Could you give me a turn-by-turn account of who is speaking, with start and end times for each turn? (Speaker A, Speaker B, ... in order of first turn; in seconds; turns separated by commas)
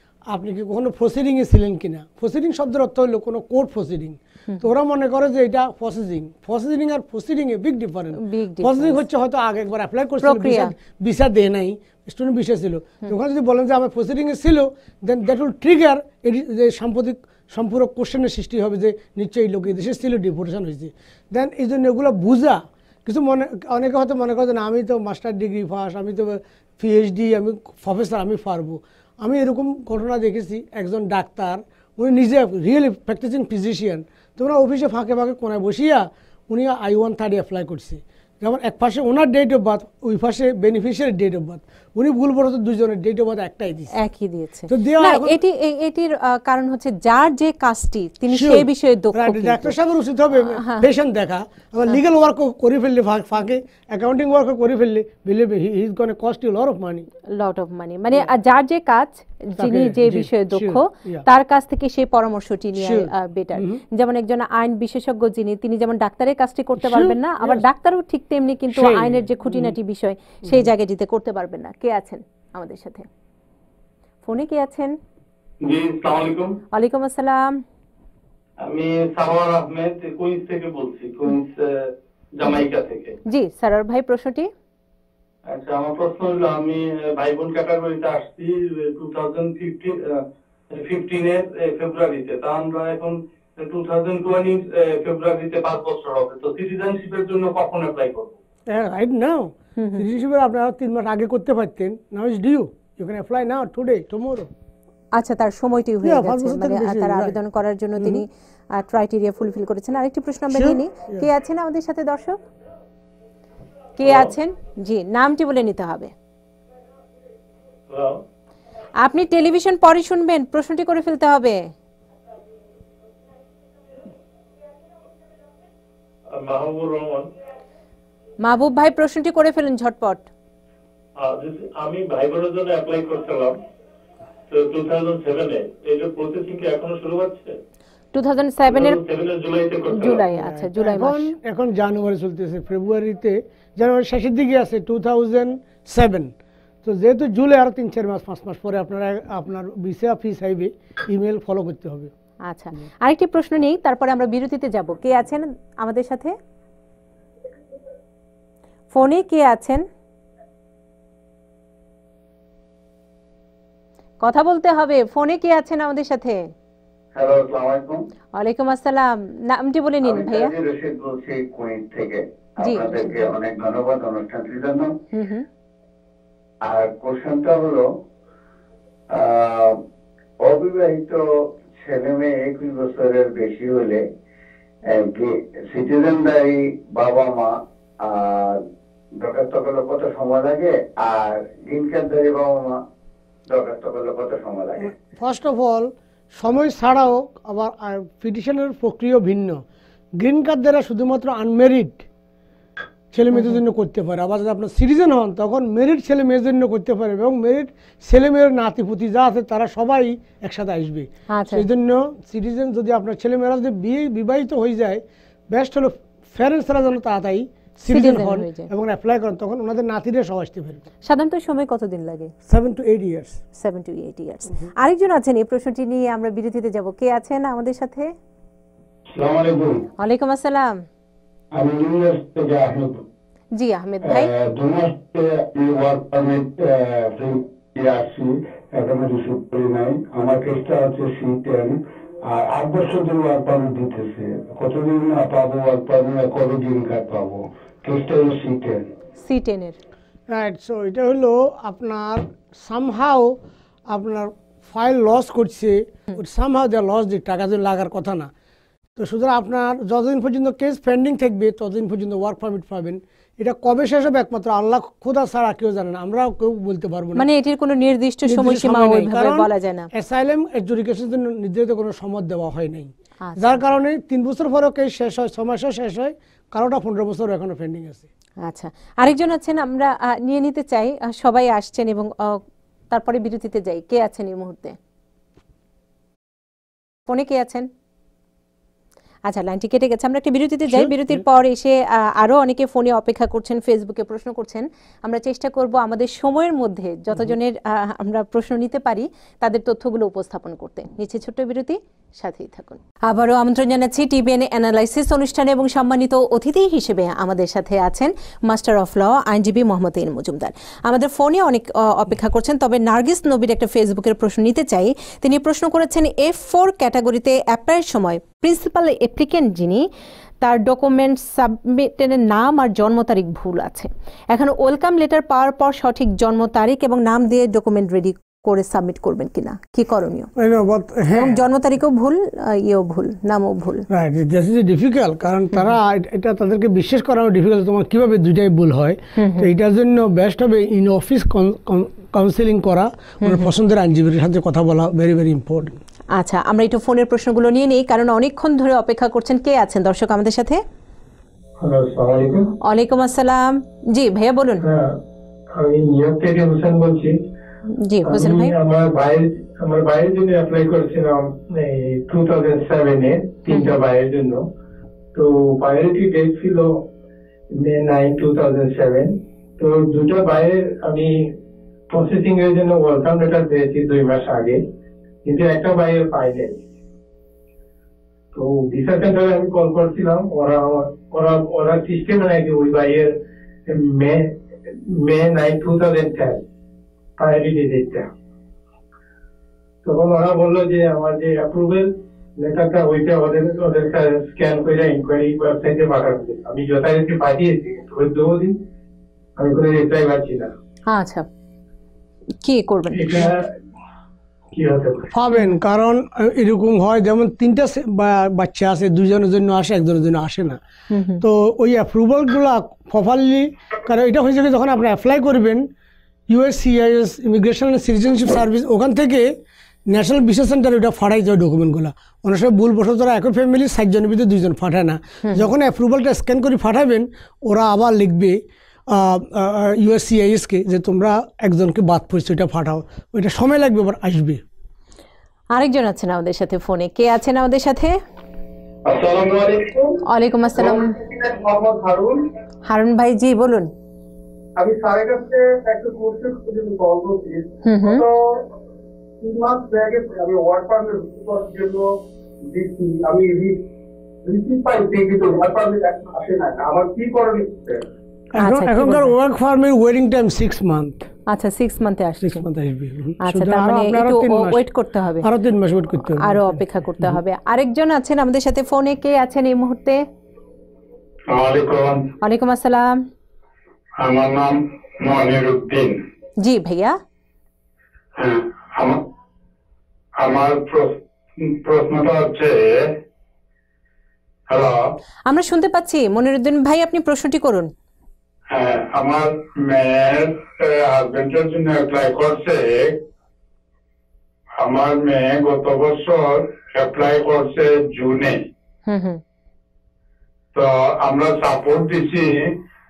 Speaker A: 0.3-43.9, Speaker B: 8.2-9.0, Speaker B: 10.2-10.7, Speaker B: 44.0-49.7, Speaker A: 44.7-45.4, Speaker A: 48.3-57.1, Speaker B: 50.4-50.9, Speaker B: 57.3-73.1, Speaker A: 59.6-61.2, Speaker A: 62.8-63.8, Speaker A: 66.8-67.6, Speaker A: 68.7-69.7, Speaker B: 74.3-75.0, Speaker C: 75.6-76.6, Speaker B: 76.7-77.6, Speaker C: 78.6-83.2, Speaker B: 83.3-84.5, Speaker C: 85.5-98.4, Speaker A: 98.7-104.5, Speaker B: 99.8-100.0, Speaker B: 105.2-112.4, Speaker A: 106.0-107.4, Speaker A: 108.0-108.2, Speaker A: 110.5-111.3, Speaker B: 114.0-116.1, Speaker C: 117.9-118.2, Speaker B: 119.0-121.7, Speaker C: 126.3-127.3, Speaker B: 128.4-130.3, Speaker C: 131.2-133.6, Speaker C: 134.5-137.6, Speaker B: 138.1-139.0, Speaker C: 138.7-140.2, Speaker B: 139.9-141.3, Speaker A: 140.3-146.3, Speaker A: 146.8-152.1, Speaker B: 152.5-156.4, Speaker B: 158.9-159.8, Speaker B: 164.2-166.5, Speaker D: 167.1-168.0, Speaker B: 168.4-170.5, Speaker D: 170.1-174.9, Speaker B: 172.6-173.3, Speaker B: 175.1-175.5, Speaker D: 176.6-177.9, Speaker D: 179.1-179.8, Speaker D: 180.4-181.2, Speaker D: 181.8-184.0, Speaker D: 184.9-188.6, Speaker D: 189.2-192.8, Speaker D: 193.5-194.9, Speaker A: 194.8-199.6, Speaker A: 200.2-202.1, Speaker A: 203.1-220.8, Speaker B: 203.3-203.6, Speaker B: 211.3-211.7, Speaker B: 217.9-218.7, Speaker B: 221.1-222.3, Speaker A: 222.5-223.4, Speaker B: 223.6-228.1, Speaker E: 229.1-229.8, Speaker B: 230.0-230.8, Speaker E: 231.5-233.0, Speaker B: 233.6-234.3, Speaker E: 234.0-248.8, Speaker B: 249.2-249.8, Speaker A: 250.3-253.4, Speaker A: 253.9-258.3, Speaker A: 259.0-267.3, Speaker B: 267.2-269.9, Speaker A: 268.3-278.1, Speaker B: 273.3-273.6, Speaker B: 278.4-282.4, Speaker B: 282.9-284.8, Speaker B: 287.1-287.7, Speaker B: 289.3-319.8, Speaker A: 290.7-291.2, Speaker B: 320.4-330.3, Speaker A: 330.4-331.4, Speaker B: 331.1-333.9, Speaker A: 333.9-345.8, Speaker B: 339.2-339.5, Speaker B: 343.2-343.5, Speaker B: 346.2-350.6, Speaker F: 351.6-352.5, Speaker B: 352.6-354.6, Speaker F: 354.6-354.9, Speaker F: 355.6-357.1, Speaker B: 357.8-358.6, Speaker F: 358.1-364.4, Speaker F: 365.1-366.7, Speaker F: 367.6-371.1, Speaker F: 371.9-374.6, Speaker F: 375.2-376.6, Speaker F: 378.3-383.1, Speaker F: 383.7-384.3, Speaker F: 384.8-386.4, Speaker F: 387.2-388.1, Speaker F: 389.8-391.9, Speaker F: 392.4-398.5, Speaker F: 399.4-400.5, Speaker B: 400.9-401.3, Speaker B: 402.4-403.3, Speaker F: 403.0-403.4, Speaker F: 404.5-405.1, Speaker A: 405.1-410.6, Speaker B: 410.9-411.2, Speaker A: 411.2-415.6, Speaker A: 416.3-419.3, Speaker A: 419.9-434.4, Speaker B: 435.6-437.9, Speaker G: 439.0-439.9, Speaker B: 440.1-440.9, Speaker G: 440.6-442.2, Speaker B: 442.7-443.7, Speaker G: 444.6-448.4, Speaker B: 447.6-448.0, Speaker G: 449.2-451.9, Speaker G: 452.5-453.6, Speaker G: 454.2-457.8, Speaker A: 458.4-461.0, Speaker B: 458.4-459.1, Speaker B: 461.3-462.4, Speaker A: 462.2-464.6, Speaker B: 463.2-465.3, Speaker A: 465.2-467.2, Speaker B: 466.2-470.0, Speaker H: 471.3-472.0, Speaker B: 472.2-472.9, Speaker H: 474.0-476.0, Speaker B: 476.4-477.0, Speaker H: 478.2-479.0, Speaker H: 480.2-482.9, Speaker H: 484.5-484.9, Speaker B: 485.3-487.7, Speaker H: 488.5-493.0, Speaker H: 494.6-498.4, Speaker B: 498.9-499.2, Speaker H: 500.5-502.5